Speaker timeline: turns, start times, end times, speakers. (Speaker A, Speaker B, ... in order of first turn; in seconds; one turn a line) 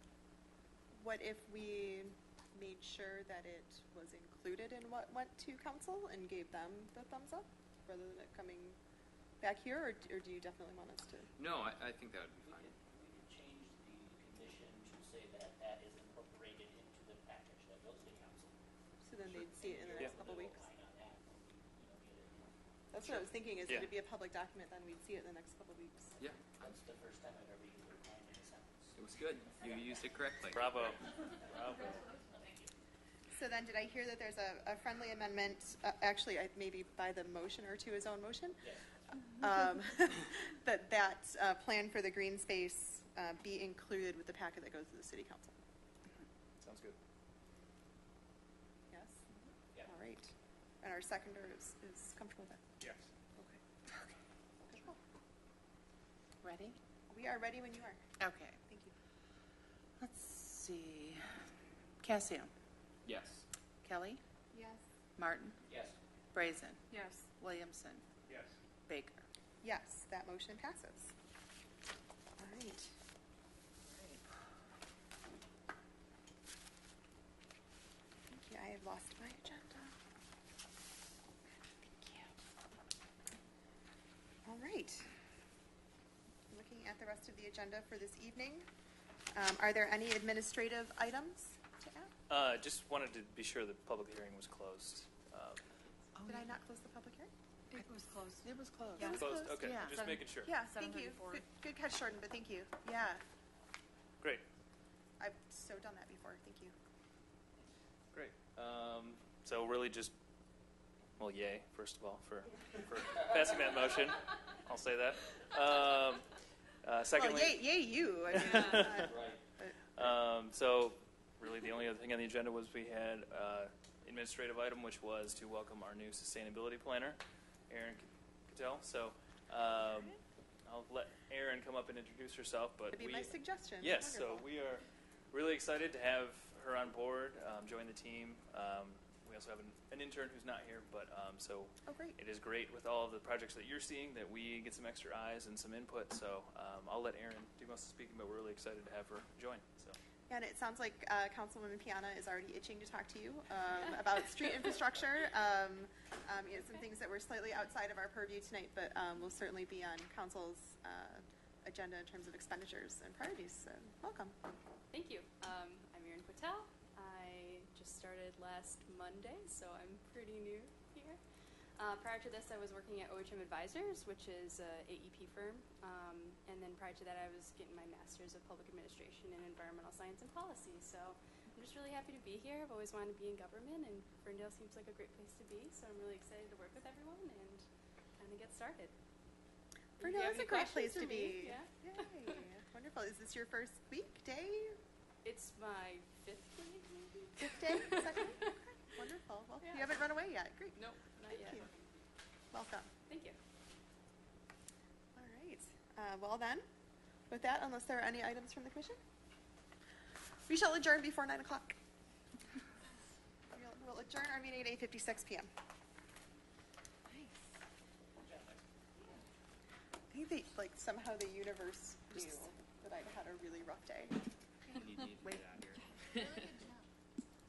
Speaker A: 0.9-8.8
Speaker A: 9.4-11.3
Speaker B: 11.4-12.7
Speaker C: 12.3-18.6
Speaker A: 19.0-20.6
Speaker C: 19.3-22.6
Speaker A: 22.9-26.2
Speaker B: 26.2-26.7
Speaker C: 26.6-28.9
Speaker B: 28.9-30.8
Speaker D: 30.5-32.0
Speaker C: 30.8-32.7
Speaker E: 31.8-32.1
Speaker A: 33.3-45.5
Speaker C: 38.6-38.9
Speaker D: 46.6-47.0
Speaker A: 48.9-49.2
Speaker A: 49.8-52.7
Speaker A: 54.6-55.0
Speaker F: 56.4-56.8
Speaker A: 57.1-58.0
Speaker F: 58.2-58.6
Speaker A: 58.7-58.9
Speaker F: 60.0-61.4
Speaker F: 62.0-62.5
Speaker B: 63.0-63.5
Speaker F: 63.8-64.2
Speaker A: 64.5-64.8
Speaker F: 65.2-65.5
Speaker C: 65.6-66.0
Speaker F: 66.3-68.0
Speaker F: 68.9-69.2
Speaker A: 69.6-71.1
Speaker A: 72.4-72.9
Speaker F: 73.8-74.2
Speaker A: 78.3-80.0
Speaker A: 81.8-82.3
Speaker A: 84.4-85.1
Speaker A: 86.5-88.7
Speaker A: 89.3-92.1
Speaker D: 92.3-95.6
Speaker F: 96.2-96.5
Speaker A: 96.2-97.3
Speaker E: 97.8-98.4
Speaker F: 98.4-100.1
Speaker A: 99.0-99.7
Speaker D: 99.2-100.5
Speaker E: 100.1-101.4
Speaker A: 100.4-103.2
Speaker A: 105.2-106.7
Speaker D: 108.1-110.1
Speaker D: 111.2-116.2
Speaker D: 116.8-117.6
Speaker A: 117.1-120.0
Speaker D: 118.3-119.1
Speaker C: 119.0-119.3
Speaker D: 120.0-127.2
Speaker D: 127.7-150.0
Speaker A: 132.9-134.5
Speaker A: 141.8-142.2
Speaker A: 150.3-164.3
Speaker G: 164.9-171.2
Speaker G: 171.8-187.6
Speaker G: 188.2-188.9
Speaker G: 190.0-192.4
Speaker A: 190.0-194.8
Speaker G: 195.2-198.5
Speaker A: 197.4-201.7
Speaker G: 199.6-200.0
Speaker G: 200.8-201.9
Speaker A: 202.5-202.9
Speaker G: 203.1-203.4
Speaker A: 205.1-206.6
Speaker A: 207.3-209.0
Speaker A: 210.5-211.8
Speaker A: 213.5-215.5
Speaker C: 218.2-218.6
Speaker A: 220.1-224.2
Speaker B: 224.7-226.6